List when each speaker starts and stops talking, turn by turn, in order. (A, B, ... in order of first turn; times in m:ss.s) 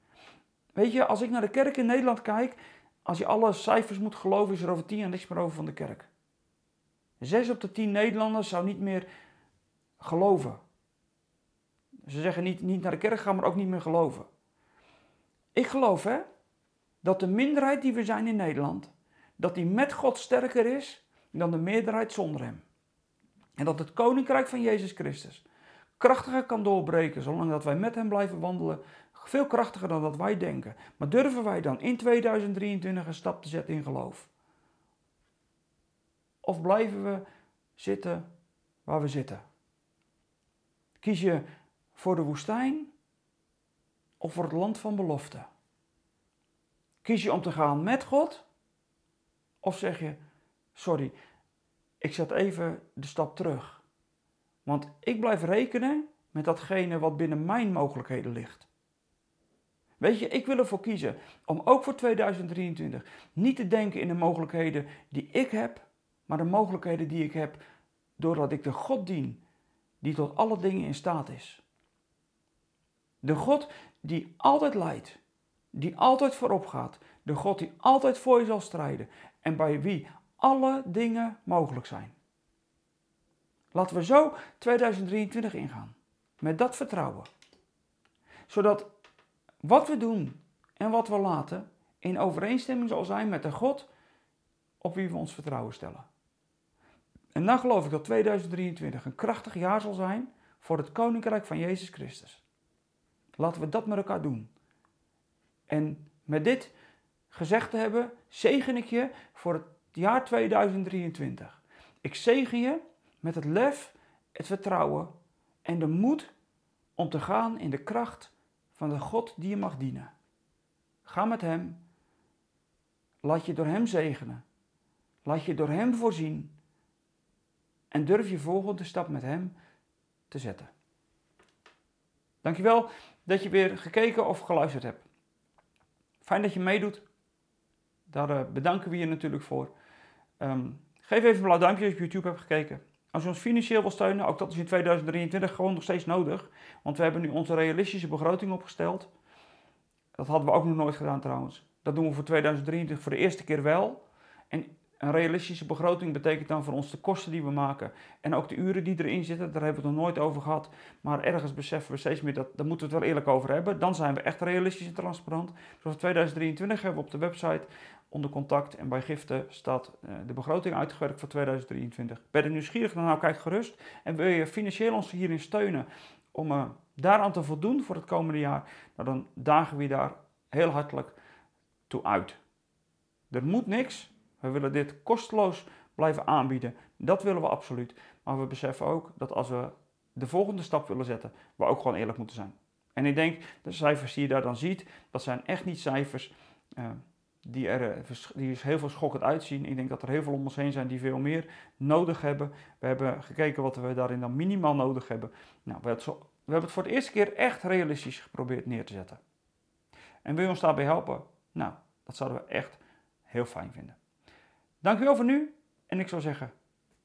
0:00.7-0:06.1 A
0:07.2-0:09.1 A
0:10.0-0:10.6 A
0:12.1-0:14.3 A
0:15.5-0:16.2 A
0:17.0-0:22.6 A
0:23.6-0:25.4 A
0:26.0-0:34.3 A
0:36.4-0:37.2 A
0:37.8-0:38.3 A
0:38.8-0:39.4 A
0:41.0-0:42.9 A
0:44.2-0:45.5 A
0:47.0-0:48.4 A
0:49.6-0:50.2 A
0:50.7-0:51.1 A
0:52.0-0:53.8 A
0:54.6-0:58.7 A
1:00.0-1:07.6 A
1:08.2-1:09.4 A
1:10.0-1:11.6 A
1:13.2-1:15.2 A
1:15.7-1:22.1 A
1:23.7-1:27.3 A
1:28.5-1:28.9 A
1:29.6-1:33.9 A
1:34.8-1:36.1 A
1:37.3-1:42.4 A
1:43.4-1:44.5 A
1:45.7-1:46.7 A
1:47.3-1:55.1 A
1:55.6-1:56.3 A
1:57.0-2:00.1 A
2:01.0-2:01.8 A
2:03.2-2:04.4 A
2:05.2-2:06.5 A
2:07.9-2:09.5 A
2:10.3-2:10.7 A
2:12.4-2:15.0 A
2:16.2-2:17.0 A
2:18.1-2:19.7 A
2:20.4-2:29.1 A
2:30.2-3:01.2 A
3:01.9-3:02.4 A
3:03.3-3:29.2 A
3:30.2-3:34.0 A
3:34.8-3:36.5 A